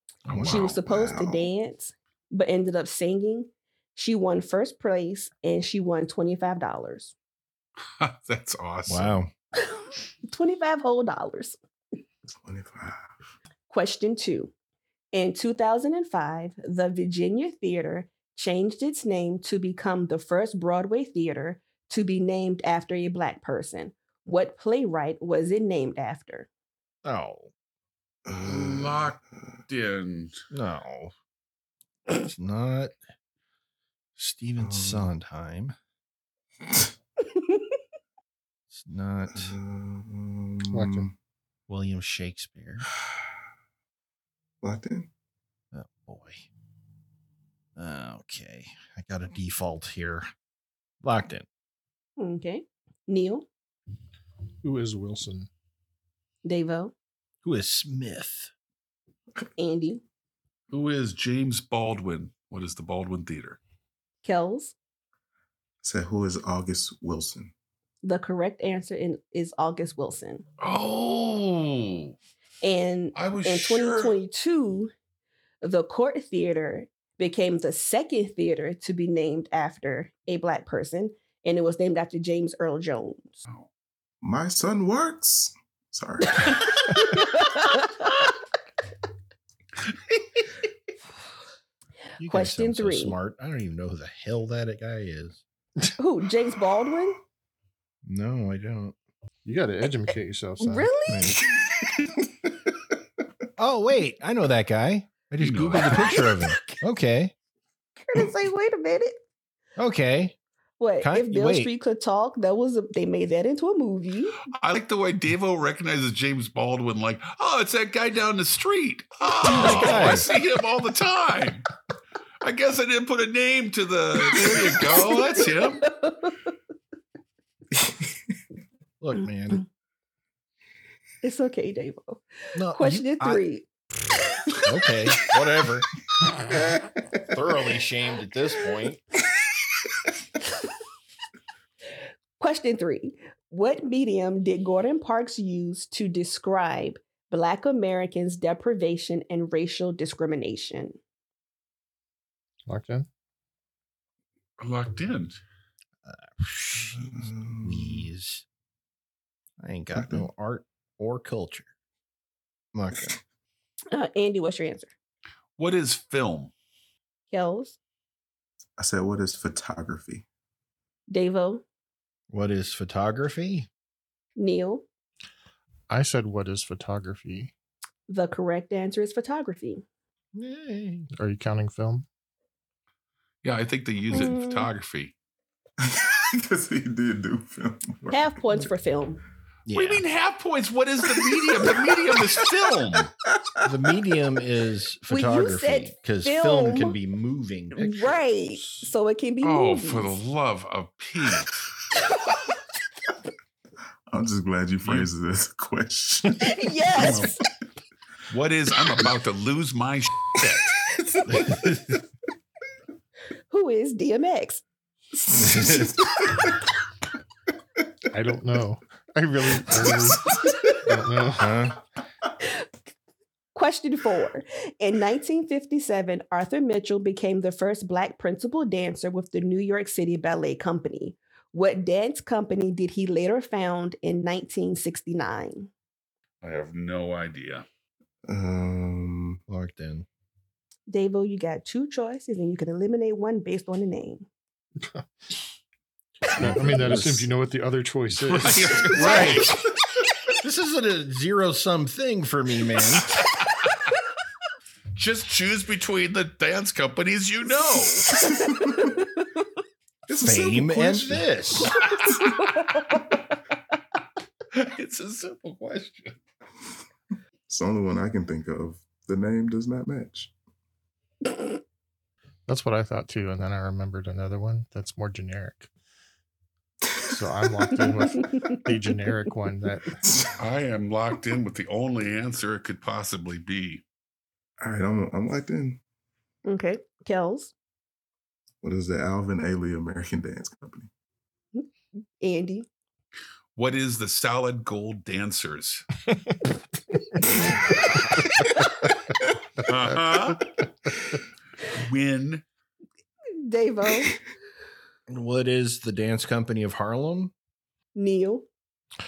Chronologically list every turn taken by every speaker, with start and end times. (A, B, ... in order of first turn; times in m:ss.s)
0:00.3-0:00.8 A
0:00.3-0:00.6 B
0:00.3-0:01.5 C
0:00.4-0:07.2 D
0:08.0-0:09.2 A
0:08.9-0:09.3 B
0:09.6-0:11.6 D
0:12.4-0:13.1 C
0:13.7-0:14.5 D
0:15.1-0:26.5 D
0:27.0-0:27.5 B
0:28.3-0:29.2 C
0:28.4-0:30.3 A
0:30.5-0:31.1 B
0:32.1-0:33.0 B
0:34.2-0:35.8 B
0:34.6-0:35.1 C
0:38.7-0:39.6 B
0:39.3-0:41.1 C
0:40.7-0:41.1 E
0:41.7-0:42.9 B
0:44.6-0:45.1 C
0:45.7-0:46.5 B
0:47.8-0:50.3 B
0:51.0-0:51.5 B
0:52.2-0:53.5 D
0:54.6-0:55.5 E
0:56.4-0:56.9 D
0:57.4-0:58.5 B
0:59.6-1:00.0 D
1:00.7-1:03.6 A
1:04.2-1:04.8 D
1:05.8-1:07.5 C
1:08.0-1:10.4 D
1:10.6-1:12.2 A
1:12.6-1:14.9 D
1:13.2-1:14.2 A
1:15.6-1:23.4 D
1:24.2-1:27.0 C
1:26.9-1:28.3 D
1:32.2-1:35.4 B
1:32.3-1:33.2 D
1:36.0-1:37.2 D
1:38.0-1:39.0 B
1:39.4-1:40.9 E
1:40.6-1:41.3 D
1:41.1-1:41.4 B
1:43.6-1:47.3 B
1:45.4-1:46.2 A
1:48.0-1:49.2 D
1:49.8-1:50.4 B
1:50.8-1:54.4 D
1:51.0-1:51.7 B
1:54.5-2:01.7 A
1:59.5-2:00.3 B
2:02.4-2:05.9 A
2:05.9-2:06.4 D
2:09.0-2:09.6 B
2:11.2-2:12.2 D
2:12.6-2:13.4 B
2:12.7-2:13.7 D
2:14.6-2:15.9 B
2:17.2-2:19.0 B
2:22.4-2:31.0 D
2:32.7-2:33.1 E
2:34.6-2:35.4 A
2:36.0-2:38.4 B
2:36.8-2:38.1 C
2:39.6-2:41.7 B
2:40.0-2:40.3 C
2:42.7-2:43.2 B
2:43.9-2:44.9 D
2:45.6-2:46.5 A
2:47.3-2:47.8 D
2:48.8-2:50.2 C
2:51.1-2:51.6 D
2:52.3-2:53.7 B
2:54.4-2:54.9 D
2:55.9-2:57.5 E
2:58.1-2:59.8 D
3:00.3-3:01.1 B
3:01.2-3:02.0 E
3:03.4-3:05.1 A
3:04.1-3:04.7 D
3:05.8-3:08.7 C
3:08.1-3:09.2 D
3:09.7-3:10.0 B
3:09.7-3:13.1 A
3:13.6-3:18.9 B
3:15.1-3:17.0 D
3:17.8-3:20.2 D
3:19.4-3:21.6 A
3:24.1-3:26.6 C
3:24.8-3:25.1 A
3:26.4-3:27.4 D
3:27.0-3:27.3 A
3:28.3-3:30.8 A
3:31.3-3:32.0 B
3:33.5-3:34.6 D
3:35.3-3:36.6 C
3:35.4-3:36.0 B
3:38.1-3:41.6 E
3:39.6-3:40.8 C
3:41.4-3:41.8 B
3:43.6-3:55.7 D
3:56.4-3:57.6 A
3:58.3-3:59.4 C
3:59.5-4:00.1 B
4:00.9-4:04.3 D
4:06.3-4:09.0 E
4:06.4-4:07.3 B
4:08.2-4:09.6 A
4:08.9-4:09.6 B
4:10.4-4:13.1 B
4:14.9-4:18.2 A
4:18.1-4:18.9 C
4:20.1-4:21.3 C
4:20.2-4:21.8 B
4:21.9-4:22.3 A
4:24.5-4:26.2 A
4:27.5-4:30.3 C
4:32.5-4:35.7 E
4:37.1-4:40.0 E
4:40.0-4:40.3 C
4:40.4-4:43.8 A
4:44.6-4:45.8 C
4:46.5-4:47.5 D
4:48.6-4:50.9 C
4:52.2-4:52.7 D
4:53.6-4:55.9 A
4:59.7-5:00.5 A
5:01.7-5:02.4 A
5:03.4-5:04.2 D
5:05.1-5:07.3 B
5:08.0-5:08.5 D